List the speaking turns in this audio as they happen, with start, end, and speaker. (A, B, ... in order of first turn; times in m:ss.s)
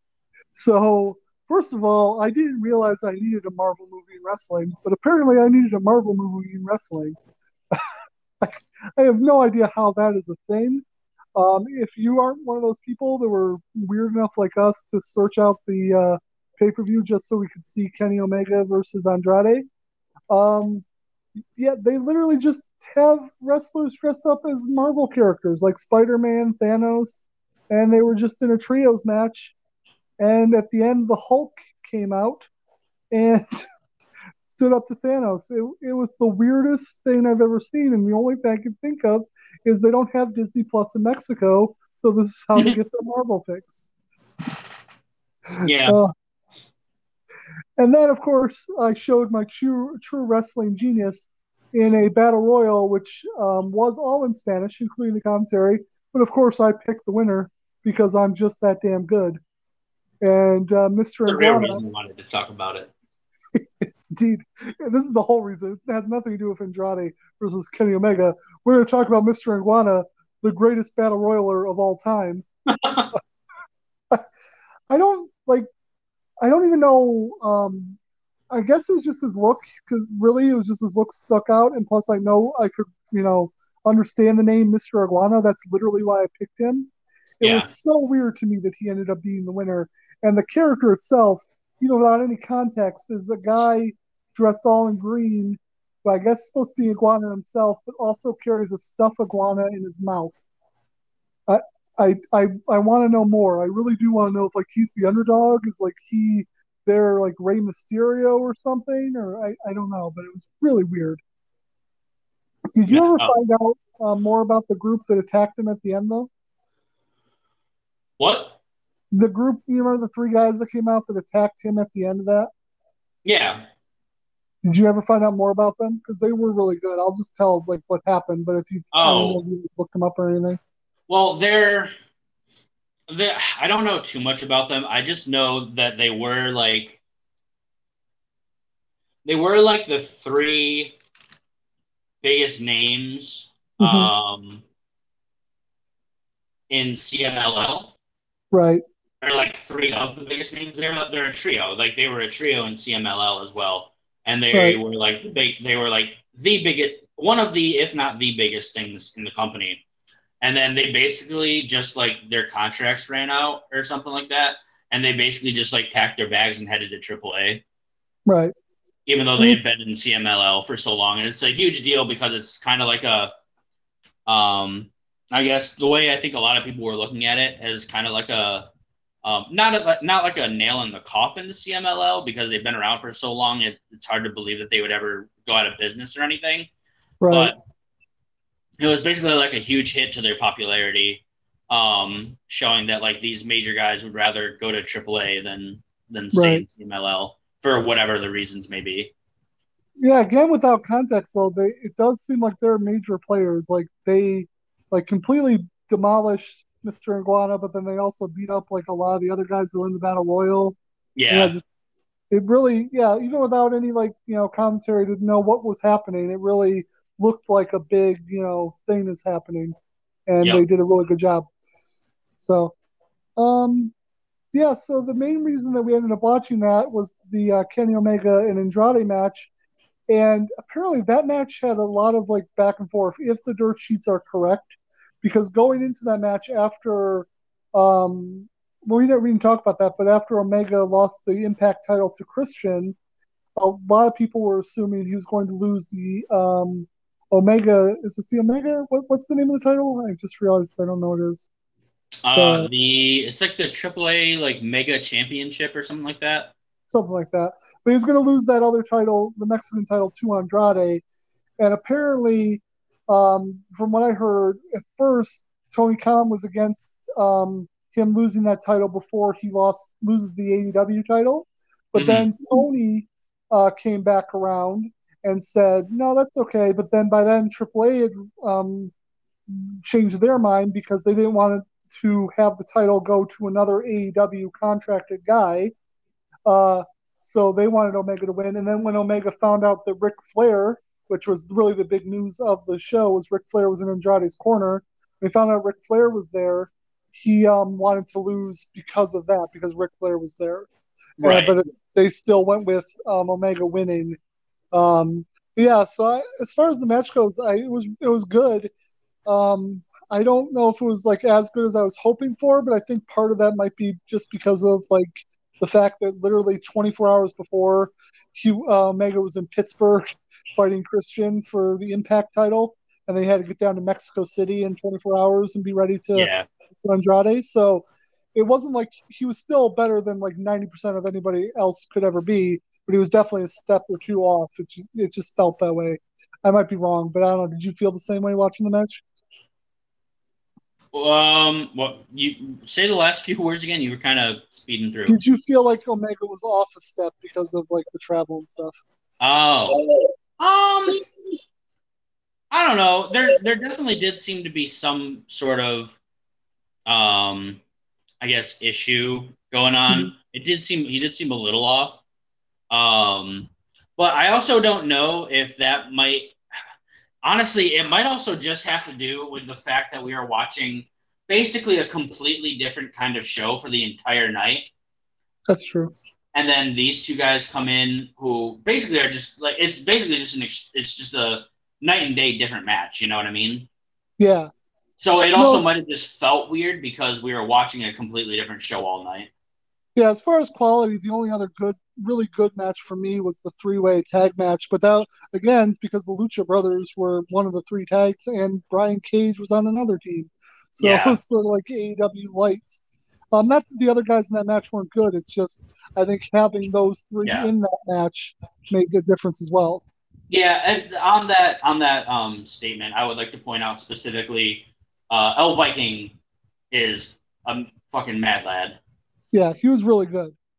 0:00.5-0:07.2 A
0:08.4-0:10.8 A
0:11.4-0:19.6 A
0:20.3-0:20.8 A
0:21.6-0:29.6 A
0:30.2-0:32.5 A
0:33.1-0:33.6 A
0:34.6-0:43.9 A
0:45.6-0:46.0 B
0:45.8-0:46.1 A
0:47.8-0:59.4 A
1:00.2-1:01.8 A
1:01.3-1:02.9 B
1:03.8-1:12.4 A
1:12.7-1:13.1 B
1:14.9-1:15.7 A
1:16.4-1:18.0 A
1:18.5-1:40.4 A
1:27.4-1:27.7 B
1:41.5-1:51.2 A
1:52.8-1:56.3 A
1:52.9-1:53.3 B
1:58.2-1:58.6 B
1:59.1-2:02.5 A
2:03.2-2:03.6 B
2:04.6-2:10.6 A
2:08.9-2:09.4 B
2:11.1-2:11.9 B
2:13.1-2:17.0 B
2:19.2-2:21.0 B
2:22.2-2:24.6 B
2:23.8-2:24.1 A
2:26.7-2:27.9 B
2:28.5-2:28.8 A
2:29.2-2:39.8 B
2:34.5-2:34.8 A
2:40.4-2:47.6 B
2:48.3-2:48.5 A
2:49.1-2:53.3 B
2:54.2-2:58.7 B
2:59.2-3:06.7 B
3:07.2-3:07.5 A
3:07.3-3:07.6 B
3:08.8-3:19.1 B
3:16.3-3:16.6 A
3:20.0-3:30.8 A
3:31.2-3:31.5 B
3:31.3-3:31.6 A
3:32.3-3:39.7 A
3:40.3-3:41.5 A
3:42.4-3:42.7 A
3:43.4-3:43.9 A
3:44.5-3:49.5 A
3:50.1-4:03.0 A
4:03.6-4:11.5 A
4:12.2-4:16.5 B
4:12.4-4:12.7 A
4:16.9-4:21.0 A
4:21.6-4:38.9 A
4:31.9-4:32.3 B
4:39.5-4:45.7 A
4:46.4-5:00.7 A
5:01.2-5:04.2 A
5:01.2-5:01.6 B
5:04.7-5:08.7 A
5:09.3-5:27.8 A
5:26.1-5:26.5 B
5:28.3-5:39.0 A
5:40.9-5:45.2 B
5:45.0-5:48.8 A
5:49.2-5:49.8 B
5:50.4-5:51.0 B
5:52.5-5:56.0 B
5:56.8-5:57.6 B
5:58.2-6:02.0 B
6:02.7-6:06.4 B
6:07.2-6:14.7 B
6:15.5-6:15.9 A
6:16.3-6:23.7 B
6:24.2-6:24.5 A
6:25.0-6:29.3 B
6:25.4-6:25.6 A
6:30.0-6:42.8 A
6:40.8-6:41.2 B
6:43.3-6:49.8 A
6:50.3-6:56.2 B
6:56.7-6:58.8 B
6:59.3-7:00.4 A